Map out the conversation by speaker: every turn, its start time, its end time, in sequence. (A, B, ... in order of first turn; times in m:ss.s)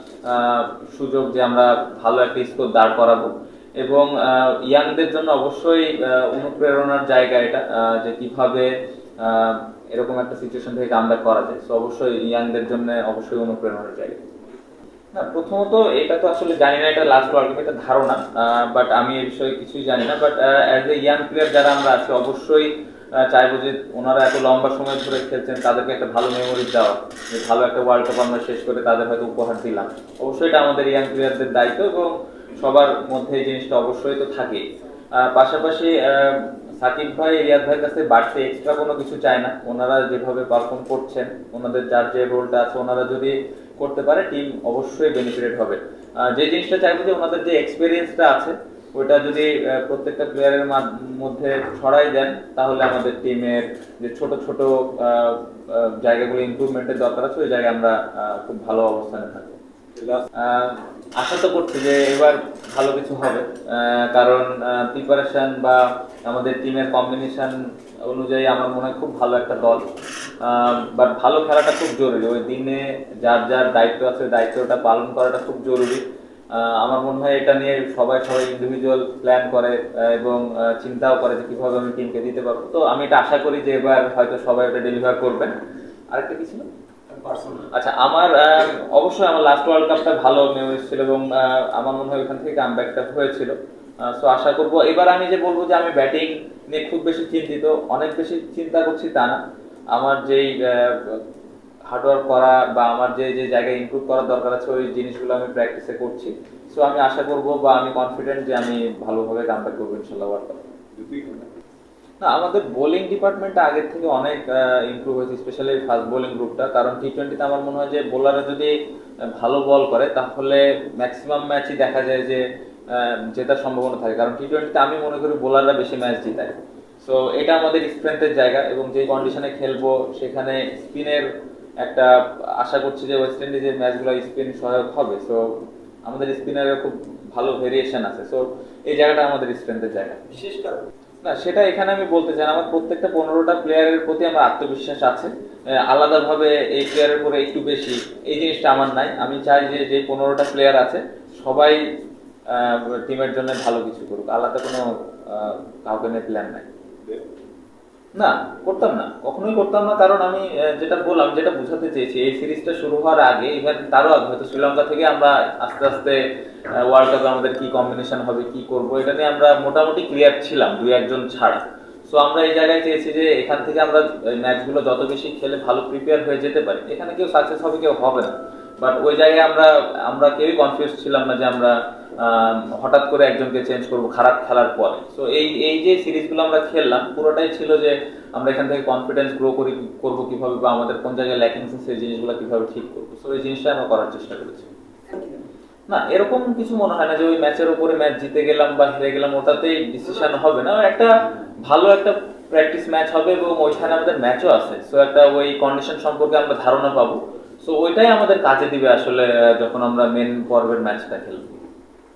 0:00.2-0:14.2 A
0:15.1-0:59.6 A
1:00.0-1:00.2 B
1:00.3-1:09.9 A
1:10.4-1:25.5 A
1:26.1-1:26.7 A
1:27.1-1:27.7 B
1:27.7-1:39.4 A
1:39.9-1:41.2 A
1:41.8-1:50.6 A
1:51.0-1:51.4 B
1:52.2-1:58.7 A
1:59.3-2:11.3 A
2:11.8-2:20.3 A
2:20.3-2:20.9 B
2:21.2-2:31.8 A
2:32.5-2:36.7 A
2:38.1-3:14.7 A
3:15.1-3:15.4 B
3:15.9-3:31.6 A